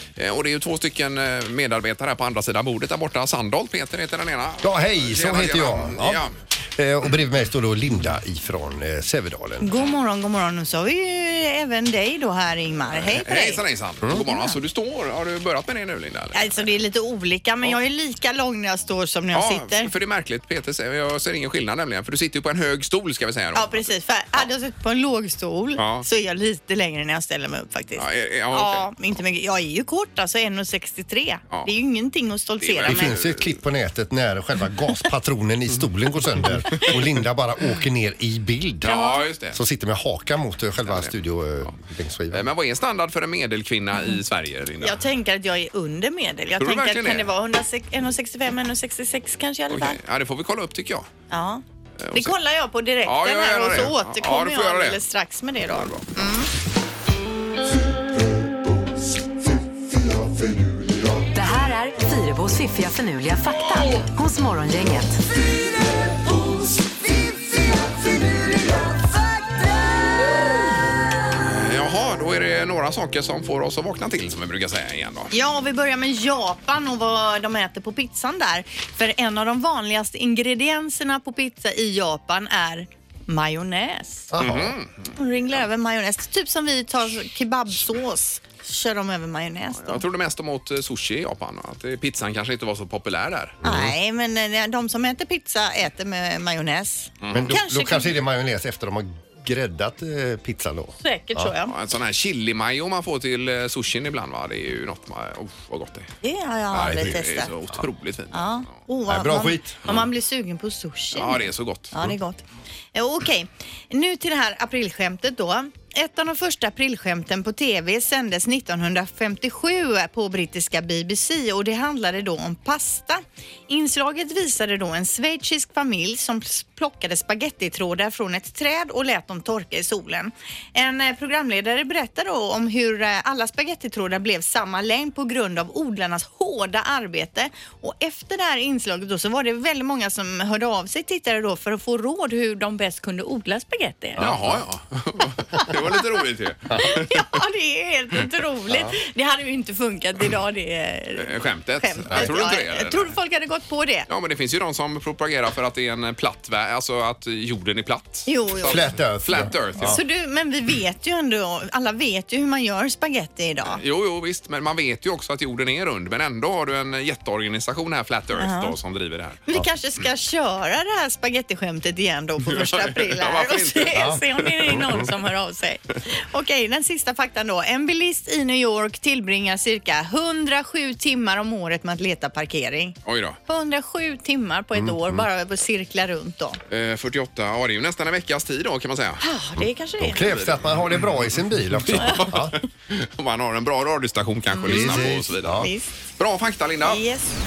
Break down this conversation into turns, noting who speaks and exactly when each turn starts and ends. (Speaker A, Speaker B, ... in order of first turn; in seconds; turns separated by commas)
Speaker A: 0.2-6.3, Speaker B: 4.6-6.2, Speaker B: 6.8-9.7, Speaker C: 9.6-13.6, Speaker A: 12.9-16.7, Speaker C: 14.1-14.5, Speaker C: 16.3-19.9, Speaker A: 19.3-24.5, Speaker C: 23.6-33.1, Speaker A: 25.8-26.1, Speaker A: 28.0-28.9, Speaker A: 32.6-33.5, Speaker B: 32.8-42.5, Speaker A: 38.8-39.6, Speaker C: 38.9-39.2, Speaker A: 40.9-41.1, Speaker A: 42.3-45.0, Speaker C: 44.8-50.0, Speaker A: 46.6-47.3, Speaker A: 49.7-51.1, Speaker C: 51.3-51.6, Speaker A: 52.0-52.3, Speaker C: 52.1-56.5, Speaker A: 53.0-55.0, Speaker A: 55.6-56.1, Speaker D: 61.3-65.2, Speaker A: 71.3-75.3, Speaker C: 75.3-84.3, Speaker B: 84.3-84.8, Speaker A: 84.4-85.1, Speaker C: 85.2-90.0, Speaker A: 89.8-93.6, Speaker B: 93.6-93.9, Speaker C: 93.6-98.1, Speaker A: 97.2-97.5, Speaker B: 97.3-101.5, Speaker C: 101.0-101.7, Speaker A: 101.7-106.1, Speaker C: 106.2-107.5, Speaker A: 106.7-108.7, Speaker C: 108.3-111.4, Speaker B: 109.1-109.9, Speaker A: 111.1-111.9, Speaker C: 111.9-112.4, Speaker C: 112.9-144.2, Speaker A: 144.2-147.2, Speaker B: 144.2-144.6, Speaker C: 146.8-154.1, Speaker B: 148.7-148.9, Speaker A: 151.2-153.1, Speaker A: 154.1-160.0, Speaker C: 158.2-158.8, Speaker B: 158.7-160.0, Speaker C: 159.8-163.8, Speaker A: 163.7-169.4, Speaker C: 168.4-168.8, Speaker C: 169.5-183.0, Speaker A: 172.5-175.0, Speaker B: 173.9-175.1, Speaker A: 183.1-183.4, Speaker C: 183.5-186.6, Speaker B: 184.8-185.3, Speaker A: 186.7-189.2, Speaker C: 189.2-190.2, Speaker B: 189.6-192.6, Speaker A: 190.2-190.6, Speaker A: 191.9-197.0, Speaker C: 194.6-195.0, Speaker B: 194.7-195.7, Speaker C: 195.6-195.9, Speaker C: 196.8-197.3